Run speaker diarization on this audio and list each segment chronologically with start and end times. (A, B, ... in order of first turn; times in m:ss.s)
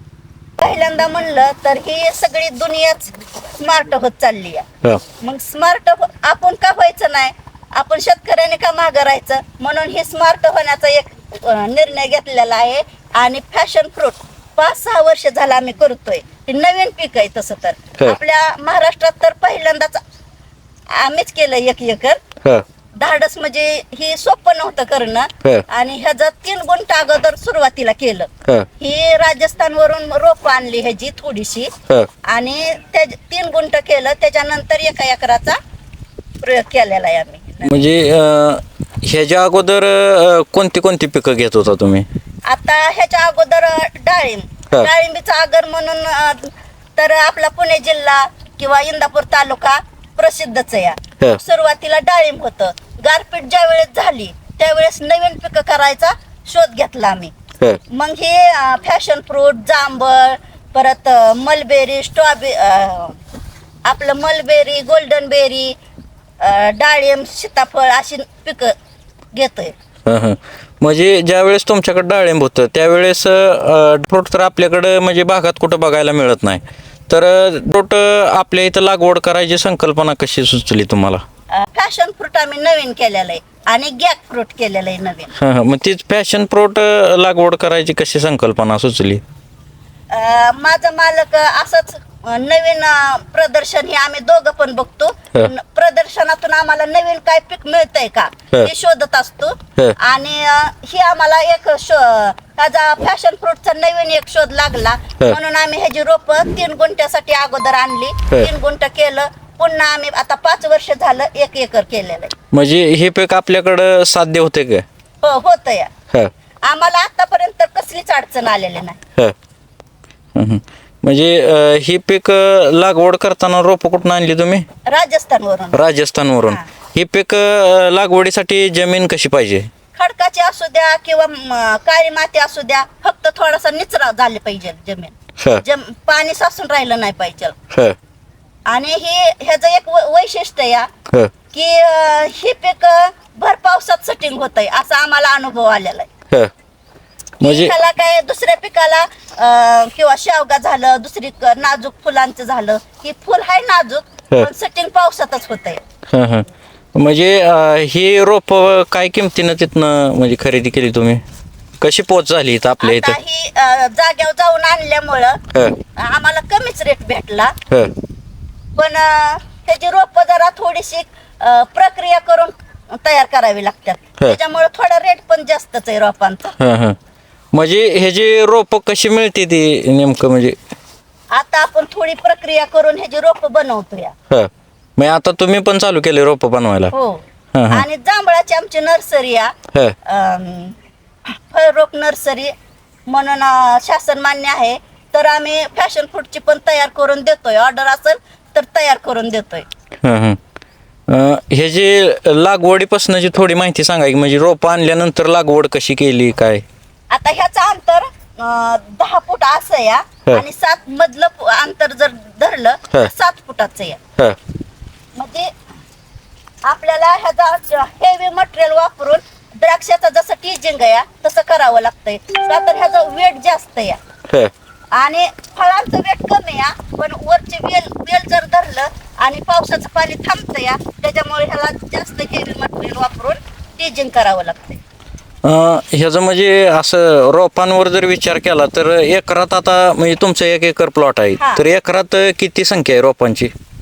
0:00.6-0:04.7 A
0:05.2-0:20.0 A
0:20.9-0:22.2 A
0:23.0-0:31.7 A
0:32.3-0:35.6 A
0:36.4-0:37.8 A
0:37.6-0:42.1 B
0:42.4-0:57.3 A
0:57.9-1:03.2 A
1:03.8-1:05.8 A
1:06.4-1:08.7 A
1:09.3-1:09.7 A
1:10.1-1:21.2 B
1:21.5-1:25.3 A
1:25.4-1:29.2 B
1:30.1-1:52.3 A
1:52.5-1:54.8 B
1:55.2-1:55.9 A
1:56.7-1:59.0 A
2:00.3-2:04.7 B
2:04.9-2:05.8 A
2:05.7-2:09.7 B
2:10.0-2:17.6 A
2:17.7-2:18.0 B
2:18.7-2:20.9 A
2:21.5-2:26.1 A
2:27.4-2:27.7 B
2:27.4-2:35.8 A
2:36.1-2:41.2 B
2:41.8-2:43.2 B
2:42.8-2:45.4 A
2:46.0-2:47.6 A
2:48.8-2:56.6 A
2:56.6-2:57.0 B
2:57.5-3:00.6 B
3:01.3-3:04.1 A
3:04.3-3:06.9 B
3:06.9-3:10.8 A
3:07.5-3:07.8 B
3:11.3-3:12.5 A
3:13.1-3:19.7 A
3:20.0-3:20.4 B
3:21.1-3:26.6 B
3:27.1-3:34.0 A
3:35.2-3:35.5 A
3:36.6-3:44.0 A
3:44.9-3:54.8 A
3:55.4-4:03.5 B
4:01.4-4:01.6 A